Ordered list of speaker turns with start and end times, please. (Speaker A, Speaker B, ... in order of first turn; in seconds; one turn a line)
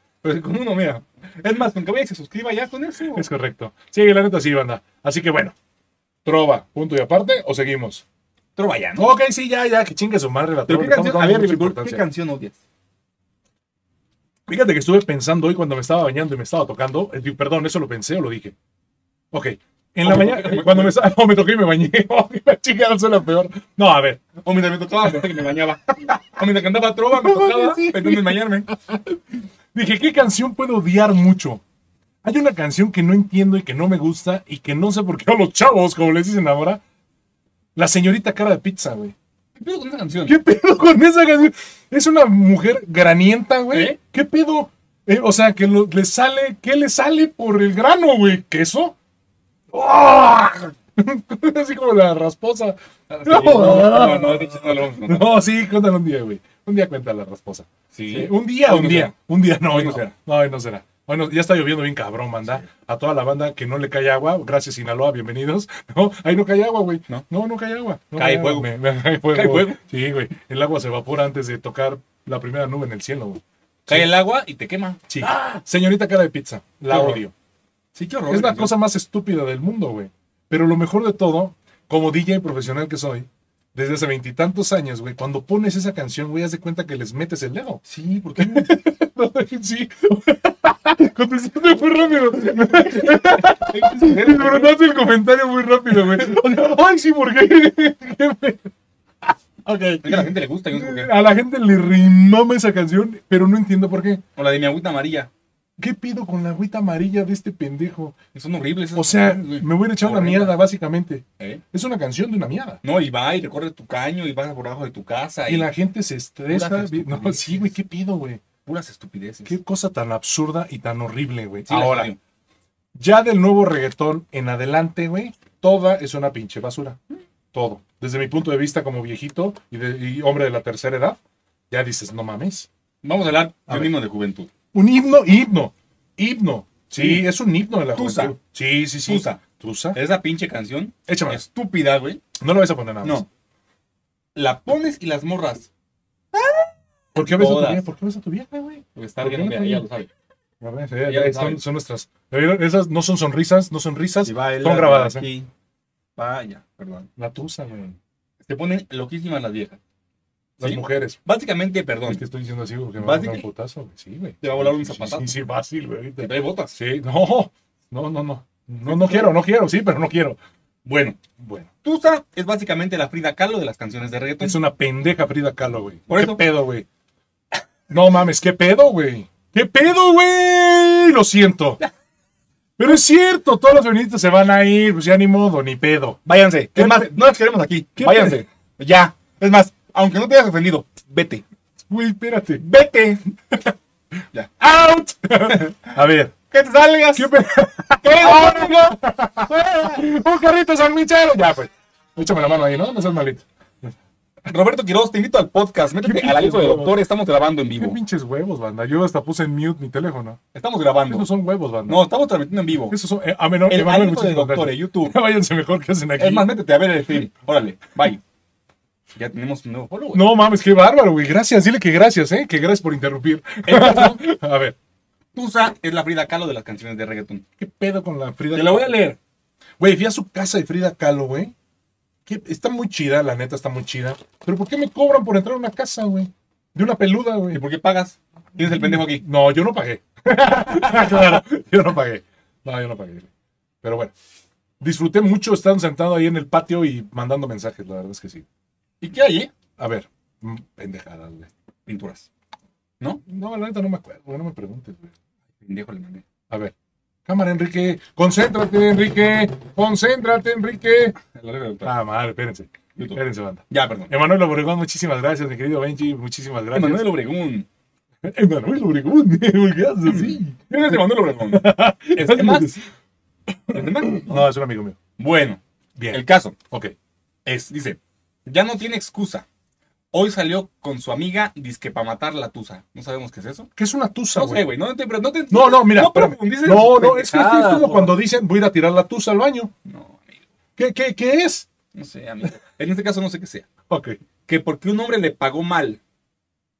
Speaker A: 0.2-3.3
Speaker B: 3.1-5.5
Speaker B: 6.2-8.0
Speaker A: 8.6-9.1
Speaker B: 9.0-12.0
Speaker A: 10.7-12.6
Speaker B: 14.5-18.5
Speaker B: 19.3-24.2
Speaker A: 20.0-21.0
Speaker A: 24.4-28.7
Speaker B: 27.1-29.2
Speaker B: 29.7-31.6
Speaker B: 32.2-36.8
Speaker B: 37.8-39.1
Speaker A: 39.5-40.4
Speaker B: 40.3-48.9
Speaker A: 43.7-44.0
Speaker B: 49.7-74.1
Speaker A: 53.1-55.3
Speaker A: 57.9-59.1
Speaker A: 59.7-60.1
Speaker A: 68.2-68.7
Speaker A: 69.3-69.8
Speaker A: 73.9-75.4
Speaker B: 75.1-77.3
Speaker A: 76.9-77.2
Speaker A: 77.9-78.8
Speaker B: 78.3-87.8
Speaker A: 87.8-88.7
Speaker B: 88.4-98.7
Speaker A: 92.6-94.7
Speaker B: 99.3-104.2
Speaker A: 100.0-101.1
Speaker A: 104.3-105.3
Speaker B: 105.8-108.1
Speaker A: 108.3-110.6
Speaker B: 108.9-112.8
Speaker A: 112.8-115.7
Speaker B: 115.5-118.4
Speaker A: 116.5-117.7
Speaker A: 118.7-119.5
Speaker B: 119.5-122.1
Speaker A: 121.7-122.2
Speaker B: 122.9-127.0
Speaker B: 127.5-131.2
Speaker B: 131.7-132.7
Speaker A: 133.0-134.5
Speaker B: 133.7-133.9
Speaker B: 134.7-140.0
Speaker A: 136.9-137.3
Speaker A: 137.9-138.3
Speaker A: 139.1-139.4
Speaker A: 139.9-142.2
Speaker B: 141.1-141.4
Speaker B: 142.3-143.2
Speaker A: 144.3-145.7
Speaker A: 146.3-147.8
Speaker B: 147.1-149.8
Speaker A: 148.9-150.1
Speaker B: 150.6-155.2
Speaker A: 151.0-151.6
Speaker A: 154.2-155.5
Speaker A: 156.2-157.1
Speaker B: 157.2-158.0
Speaker A: 158.4-159.8
Speaker B: 160.6-161.2
Speaker A: 160.6-162.2
Speaker B: 162.1-170.4
Speaker A: 163.0-163.4
Speaker A: 164.4-165.3
Speaker A: 166.2-166.8
Speaker A: 168.8-169.3
Speaker A: 170.8-171.2
Speaker B: 171.4-171.7
Speaker A: 171.8-174.6
Speaker B: 174.4-176.8
Speaker A: 176.1-176.4
Speaker B: 177.9-181.8
Speaker B: 182.8-186.2
Speaker A: 186.2-191.4
Speaker B: 186.7-187.1
Speaker B: 188.0-188.4
Speaker B: 191.9-192.6
Speaker A: 192.6-193.2
Speaker B: 194.6-196.3
Speaker A: 196.5-197.3
Speaker B: 197.1-203.4
Speaker A: 198.0-200.0
Speaker A: 204.5-208.0
Speaker B: 206.0-207.0
Speaker B: 207.8-210.4
Speaker A: 210.5-211.3
Speaker B: 211.1-212.1
Speaker A: 211.9-213.0
Speaker B: 212.9-216.5
Speaker A: 213.7-215.2
Speaker A: 216.2-218.2
Speaker A: 219.1-220.3
Speaker B: 220.1-224.8
Speaker A: 223.6-224.2
Speaker A: 225.3-227.4
Speaker B: 227.6-229.0
Speaker A: 228.5-229.2
Speaker B: 229.8-231.5
Speaker B: 232.2-237.6
Speaker A: 237.5-239.2
Speaker B: 238.8-243.3
Speaker A: 240.7-241.2
Speaker B: 243.8-244.1
Speaker B: 244.8-248.4
Speaker A: 249.0-249.5
Speaker B: 249.8-251.5
Speaker A: 251.8-252.3
Speaker B: 253.3-255.1
Speaker A: 255.6-256.2
Speaker B: 257.2-261.2
Speaker A: 261.2-261.9
Speaker B: 261.8-267.1
Speaker A: 262.9-264.1
Speaker A: 266.7-267.7
Speaker B: 268.2-271.0
Speaker A: 270.1-272.8
Speaker B: 271.5-272.8
Speaker B: 273.5-275.0
Speaker A: 273.7-274.4
Speaker A: 275.2-275.6
Speaker B: 275.9-276.9
Speaker A: 276.1-276.5
Speaker A: 277.4-279.4
Speaker A: 280.1-283.7
Speaker B: 283.8-284.7
Speaker A: 284.3-288.2
Speaker B: 285.5-289.7
Speaker A: 289.8-290.4
Speaker B: 290.8-291.7
Speaker A: 291.9-293.7
Speaker B: 293.9-294.2
Speaker A: 294.4-296.0